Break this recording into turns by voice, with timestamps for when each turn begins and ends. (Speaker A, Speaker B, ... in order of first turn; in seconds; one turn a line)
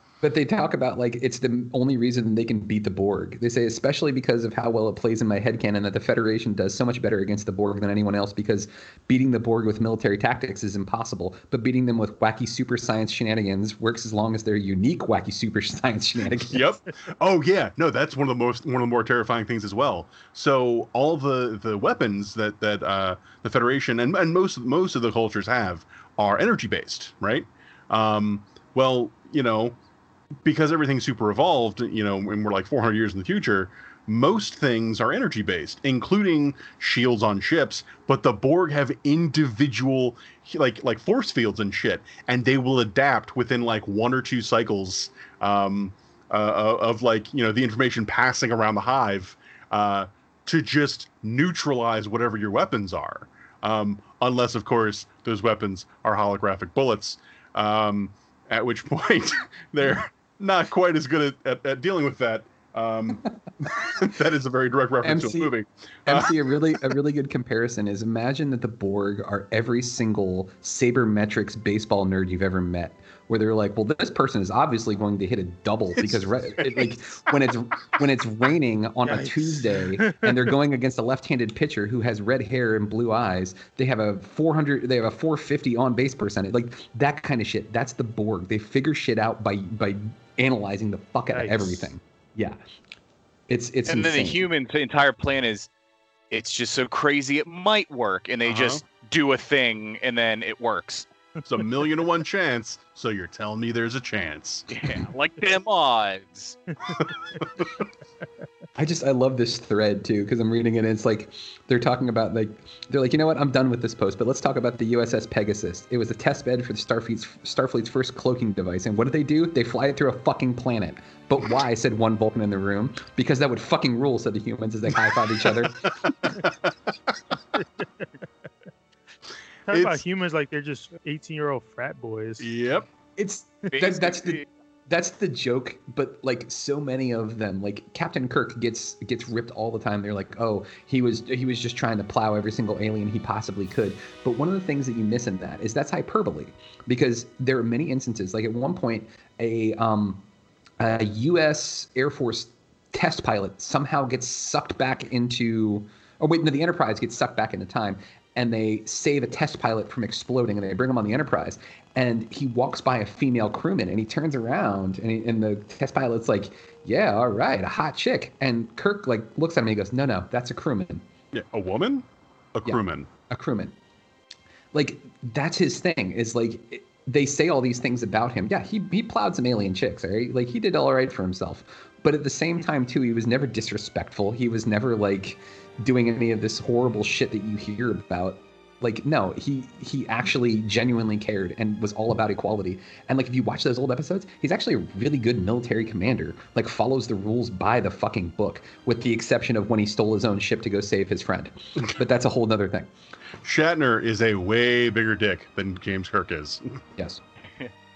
Speaker A: 0.2-16.6
Speaker B: 16.4-29.8
Speaker B: 30.4-66.4
Speaker A: 65.0-65.5
Speaker A: 66.1-92.6
Speaker B: 76.0-76.9
Speaker C: 79.0-79.3
Speaker C: 91.3-91.9
Speaker A: 93.5-94.4
Speaker D: 93.9-95.7
Speaker D: 96.3-101.1
Speaker B: 98.5-98.8
Speaker B: 101.5-104.7
Speaker D: 104.7-106.6
Speaker B: 107.4-107.8
Speaker A: 108.8-125.8
Speaker B: 125.5-127.2
Speaker C: 129.7-132.5
Speaker B: 129.7-130.0
Speaker B: 132.4-132.9
Speaker A: 133.2-150.2
Speaker D: 133.7-134.5
Speaker A: 150.8-171.1
Speaker B: 171.3-173.1
Speaker A: 172.7-173.8
Speaker A: 174.7-202.9
Speaker B: 203.4-206.8
Speaker A: 207.0-207.2